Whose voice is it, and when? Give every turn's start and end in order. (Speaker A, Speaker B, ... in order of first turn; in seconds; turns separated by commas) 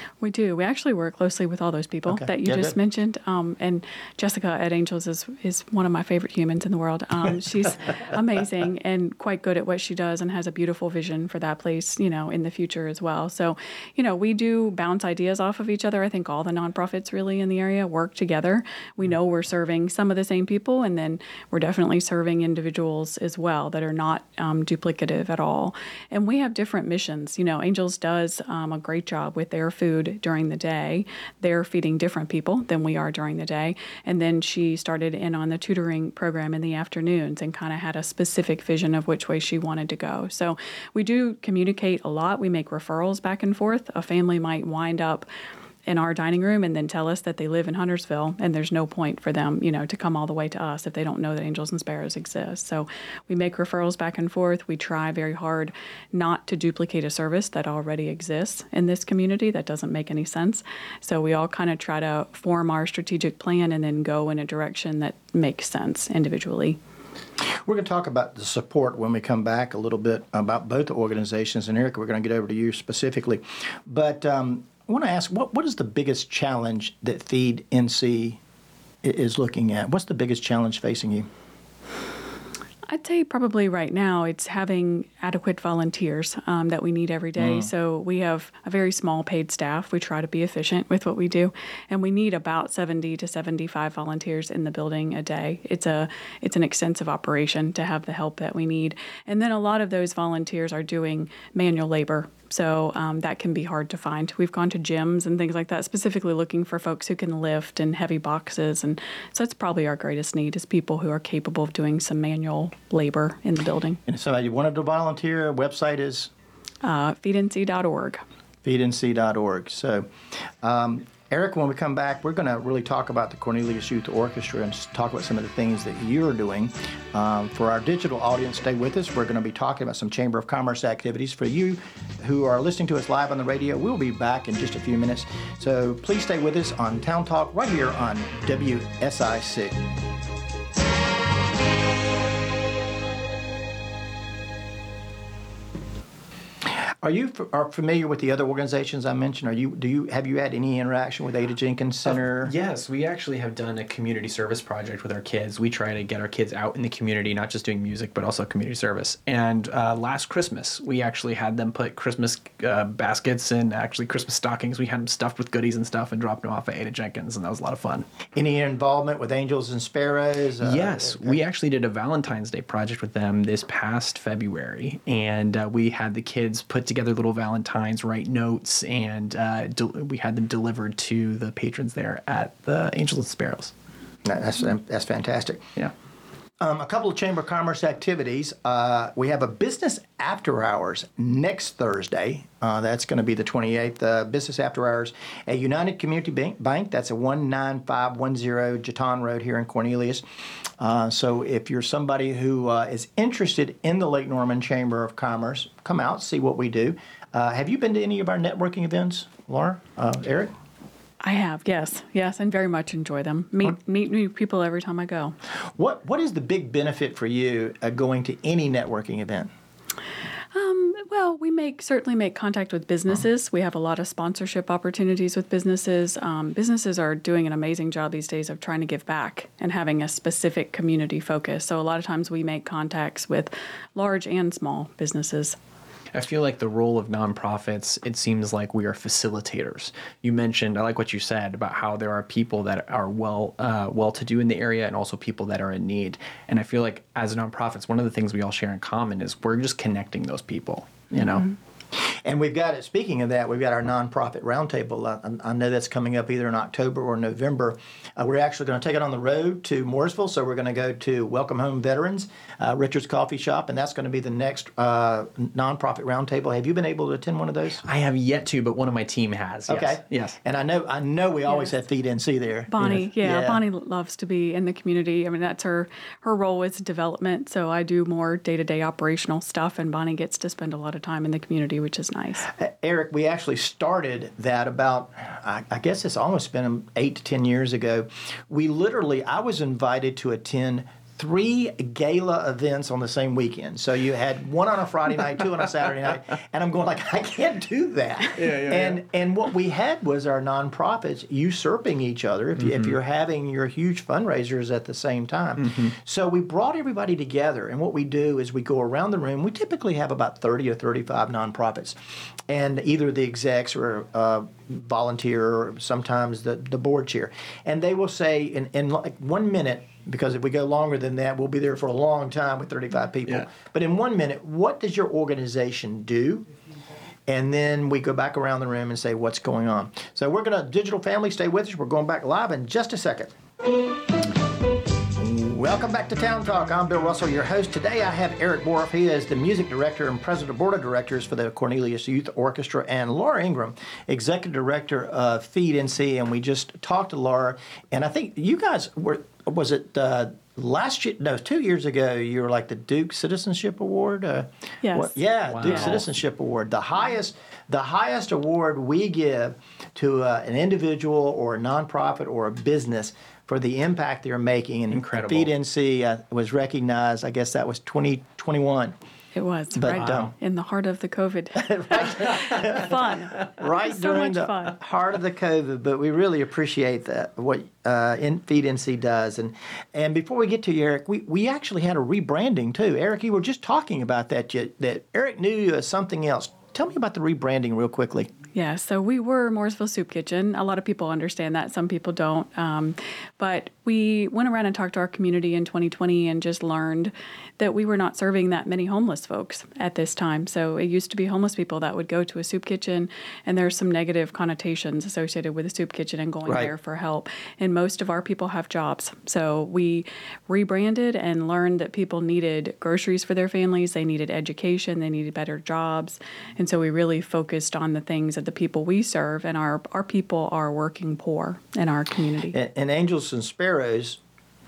Speaker A: 0.2-45.3, Speaker B: 2.1-2.8, Speaker A: 45.9-66.8, Speaker B: 67.7-78.4, Speaker B: 79.0-81.3, Speaker A: 82.9-114.0, Speaker B: 87.4-87.7, Speaker B: 114.1-116.3, Speaker A: 116.8-118.2, Speaker B: 118.7-120.1, Speaker B: 120.6-139.8, Speaker B: 147.0-152.5, Speaker C: 152.1-168.1, Speaker B: 168.3-171.4, Speaker C: 170.6-183.7, Speaker B: 184.2-185.7, Speaker B: 186.6-200.2, Speaker B: 200.8-210.5, Speaker A: 211.2-215.3, Speaker B: 215.8-219.5, Speaker A: 220.5-235.6, Speaker C: 236.1-251.5, Speaker B: 252.2-267.8, Speaker C: 267.8-270.4, Speaker B: 269.7-273.6, Speaker A: 272.7-282.5, Speaker B: 282.6-312.0, Speaker C: 298.3-299.0, Speaker C: 302.6-303.0, Speaker C: 305.6-305.9, Speaker B: 312.5-326.5, Speaker B: 327.3-333.3, Speaker B: 335.2-369.0, Speaker A: 354.8-355.9, Speaker C: 355.5-356.1, Speaker C: 364.9-365.5, Speaker A: 369.4-374.8, Speaker B: 369.8-370.3, Speaker C: 369.9-370.3, Speaker B: 371.6-388.3, Speaker A: 388.6-422.6, Speaker B: 406.4-406.7, Speaker B: 422.5-424.2